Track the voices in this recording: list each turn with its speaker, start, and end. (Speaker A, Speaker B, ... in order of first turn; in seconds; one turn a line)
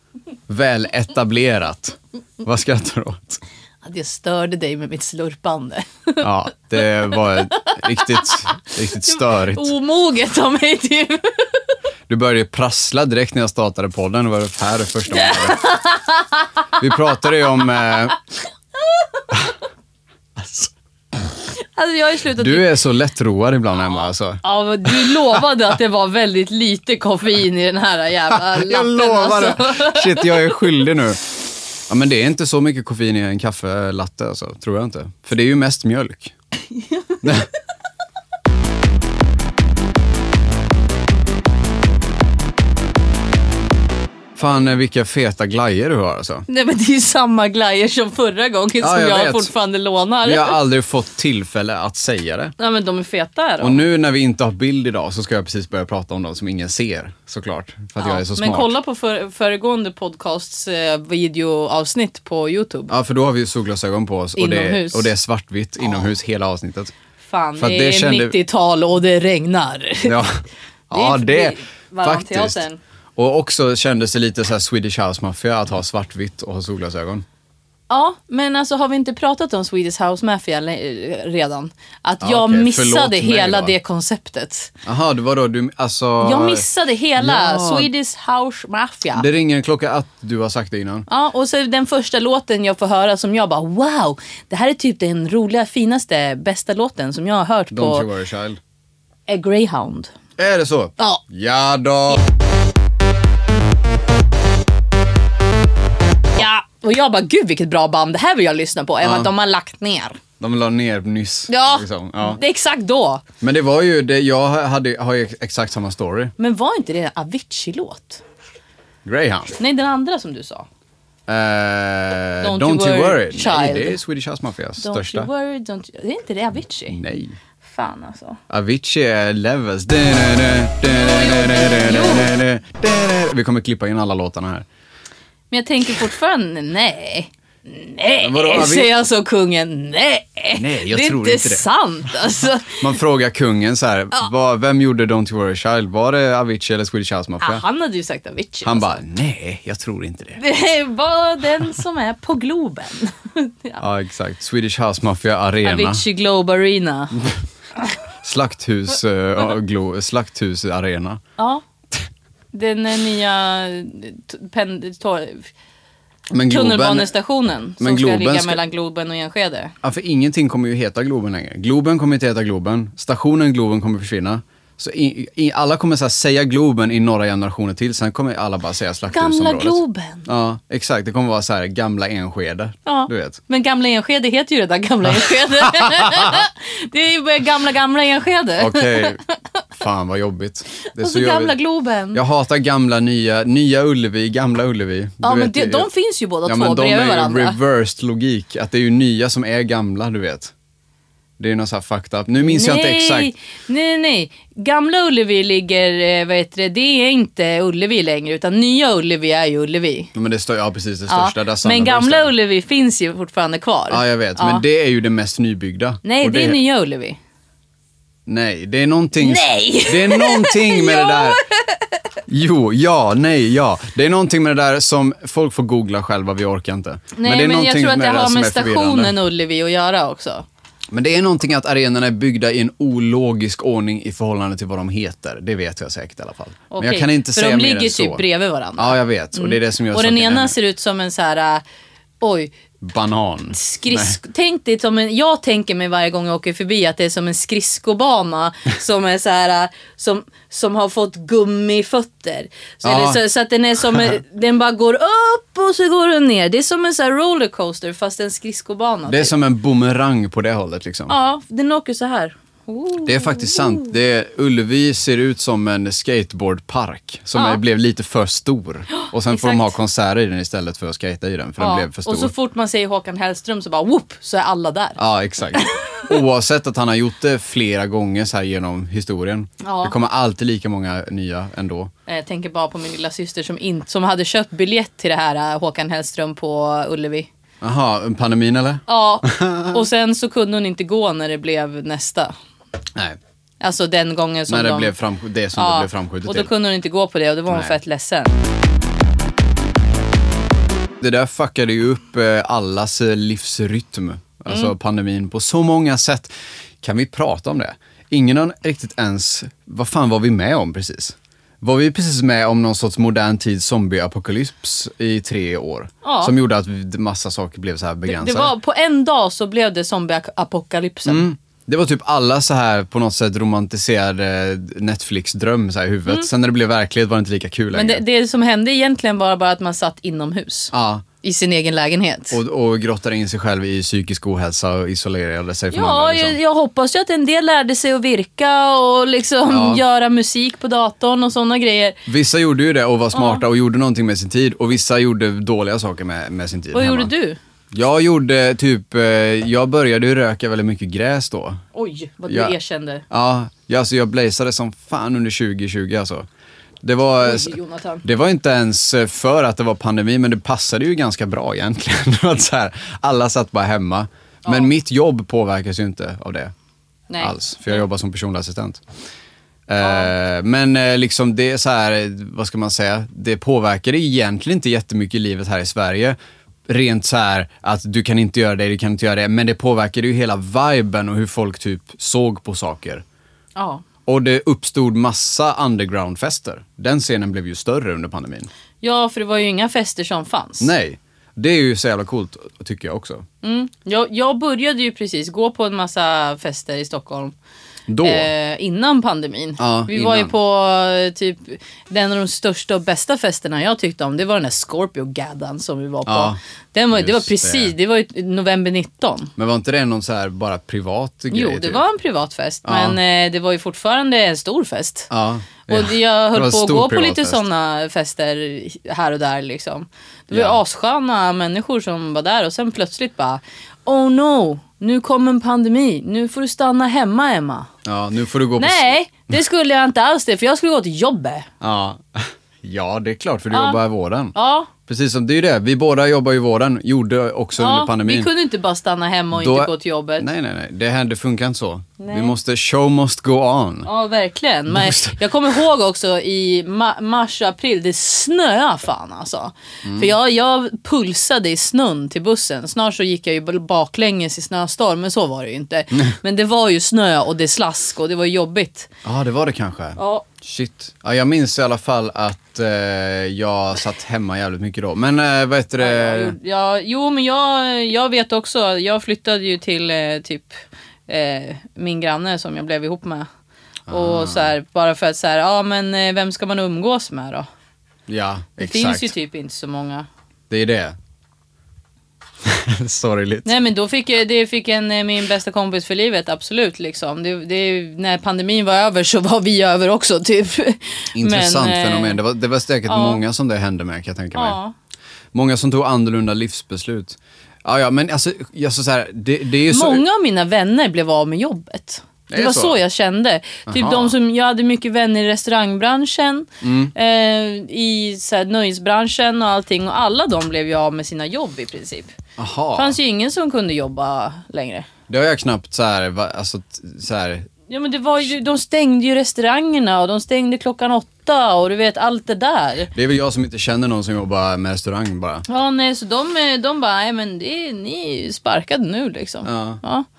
Speaker A: 0.5-3.4
Speaker B: 3.8-6.2
Speaker A: 6.2-9.7
Speaker B: 7.1-8.4
Speaker B: 9.0-11.6
Speaker A: 12.1-15.7
Speaker B: 15.1-16.4
Speaker A: 16.8-18.2
Speaker A: 20.4-20.7
Speaker B: 21.6-22.7
Speaker A: 22.3-25.4
Speaker B: 24.4-30.5
Speaker A: 28.3-36.3
Speaker B: 36.8-37.2
Speaker A: 37.2-37.5
Speaker A: 44.4-46.4
Speaker B: 46.5-50.6
Speaker A: 48.8-49.5
Speaker A: 50.2-52.5
Speaker B: 52.6-53.8
Speaker A: 53.6-58.7
Speaker B: 58.0-62.9
Speaker A: 62.9-66.9
Speaker B: 64.4-65.1
Speaker B: 67.2-70.2
Speaker A: 67.6-68.3
Speaker A: 70.0-72.6
Speaker B: 70.9-72.8
Speaker A: 73.2-77.2
Speaker B: 77.9-84.7
Speaker A: 82.2-83.7
Speaker A: 84.8-86.6
Speaker B: 86.2-89.3
Speaker A: 87.2-87.9
Speaker A: 89.1-91.1
Speaker B: 91.1-98.1
Speaker A: 97.7-98.6
Speaker B: 99.3-100.1
Speaker A: 100.4-102.2
Speaker B: 106.3-110.2
Speaker A: 109.0-109.3
Speaker A: 110.4-112.4
Speaker B: 111.5-113.2
Speaker A: 113.4-116.3
Speaker B: 116.4-118.2
Speaker A: 119.0-119.6
Speaker B: 119.6-120.7
Speaker A: 121.3-125.3
Speaker B: 122.4-124.0
Speaker B: 124.8-127.0
Speaker A: 126.9-127.3
Speaker B: 127.6-128.4
Speaker A: 128.5-134.7
Speaker B: 130.9-132.3
Speaker B: 135.5-142.9
Speaker A: 138.2-138.9
Speaker A: 140.5-141.6
Speaker A: 142.7-147.6
Speaker B: 147.4-149.0
Speaker A: 148.6-150.4
Speaker B: 150.4-153.8
Speaker A: 153.8-156.0
Speaker B: 155.6-157.3
Speaker A: 158.2-161.2
Speaker B: 161.4-161.6
Speaker B: 162.5-165.5
Speaker A: 166.3-167.1
Speaker B: 166.4-169.7
Speaker A: 167.8-168.6
Speaker A: 169.8-183.4
Speaker B: 179.1-180.3
Speaker B: 182.8-189.3
Speaker A: 185.2-186.4
Speaker A: 188.6-189.2
Speaker A: 189.7-191.5
Speaker B: 190.9-192.2
Speaker A: 192.1-195.9
Speaker B: 195.2-197.6
Speaker A: 196.4-200.5
Speaker A: 201.4-203.3
Speaker B: 202.4-210.1
Speaker A: 210.1-212.3
Speaker B: 211.1-214.6
Speaker A: 213.9-216.6
Speaker B: 216.0-217.2
Speaker A: 218.2-221.4
Speaker B: 219.2-222.0
Speaker A: 222.3-229.2
Speaker B: 227.2-230.4
Speaker A: 230.9-238.2
Speaker B: 236.7-241.6
Speaker A: 238.8-240.6
Speaker B: 242.2-242.5
Speaker A: 242.8-244.2
Speaker B: 243.5-259.3
Speaker A: 252.8-253.2
Speaker A: 253.8-254.1
Speaker A: 259.1-261.1
Speaker B: 261.1-263.9
Speaker A: 263.0-272.3
Speaker B: 267.3-267.6
Speaker B: 268.9-269.7
Speaker B: 271.6-275.0
Speaker A: 275.0-281.9
Speaker B: 275.5-276.1
Speaker B: 279.6-279.9
Speaker B: 282.1-287.3
Speaker A: 287.6-289.8
Speaker B: 288.9-292.3
Speaker B: 293.6-294.9
Speaker A: 294.5-296.5
Speaker B: 295.6-298.4
Speaker A: 297.5-297.8
Speaker A: 301.0-318.5
Speaker B: 316.0-316.3
Speaker B: 318.1-321.3
Speaker A: 321.1-328.0
Speaker B: 327.7-332.4
Speaker A: 330.7-331.0
Speaker A: 332.3-336.4
Speaker B: 335.7-342.0
Speaker A: 339.5-339.8
Speaker A: 342.1-347.1
Speaker B: 343.1-343.4
Speaker B: 346.7-347.4
Speaker A: 347.7-351.6
Speaker B: 351.7-353.0
Speaker A: 352.3-352.5
Speaker A: 353.1-356.2
Speaker A: 356.8-366.5
Speaker B: 357.2-358.0
Speaker B: 367.1-367.8
Speaker A: 367.2-368.8
Speaker A: 369.7-376.1
Speaker B: 369.8-370.1
Speaker A: 376.7-383.0
Speaker B: 383.6-383.8
Speaker A: 384.1-388.5
Speaker B: 388.8-390.7
Speaker A: 390.6-393.2
Speaker B: 393.4-397.3
Speaker A: 397.9-398.3
Speaker B: 398.0-409.3
Speaker A: 399.6-400.3
Speaker A: 406.1-406.4
Speaker A: 406.9-407.7
Speaker A: 409.4-411.8
Speaker B: 411.3-415.1
Speaker A: 412.6-413.0
Speaker A: 415.1-417.4
Speaker B: 415.7-427.7
Speaker A: 420.3-420.6
Speaker A: 427.8-428.9
Speaker B: 428.6-431.5
Speaker A: 431.6-434.3
Speaker B: 433.5-433.8
Speaker B: 434.3-434.7
Speaker A: 434.9-438.3
Speaker B: 437.6-440.2
Speaker A: 439.3-443.9
Speaker B: 442.0-442.3
Speaker B: 443.8-458.9
Speaker A: 444.7-445.2
Speaker A: 449.8-450.1
Speaker A: 459.0-466.4
Speaker B: 460.0-460.3
Speaker B: 465.8-470.5
Speaker B: 471.1-473.3
Speaker A: 473.9-474.5
Speaker B: 473.9-477.5
Speaker A: 478.1-479.1
Speaker B: 478.6-480.1
Speaker A: 480.5-480.9
Speaker A: 482.4-483.5
Speaker B: 483.4-492.2
Speaker A: 491.1-494.6
Speaker B: 492.9-493.2
Speaker B: 494.3-494.7
Speaker A: 495.3-500.0
Speaker B: 499.7-512.1
Speaker A: 502.3-502.8
Speaker A: 503.7-504.1
Speaker A: 506.6-506.9
Speaker A: 512.4-513.0
Speaker B: 512.8-514.9
Speaker A: 515.1-517.5
Speaker B: 517.7-522.9
Speaker A: 522.9-525.4
Speaker B: 525.5-530.0
Speaker A: 529.4-529.8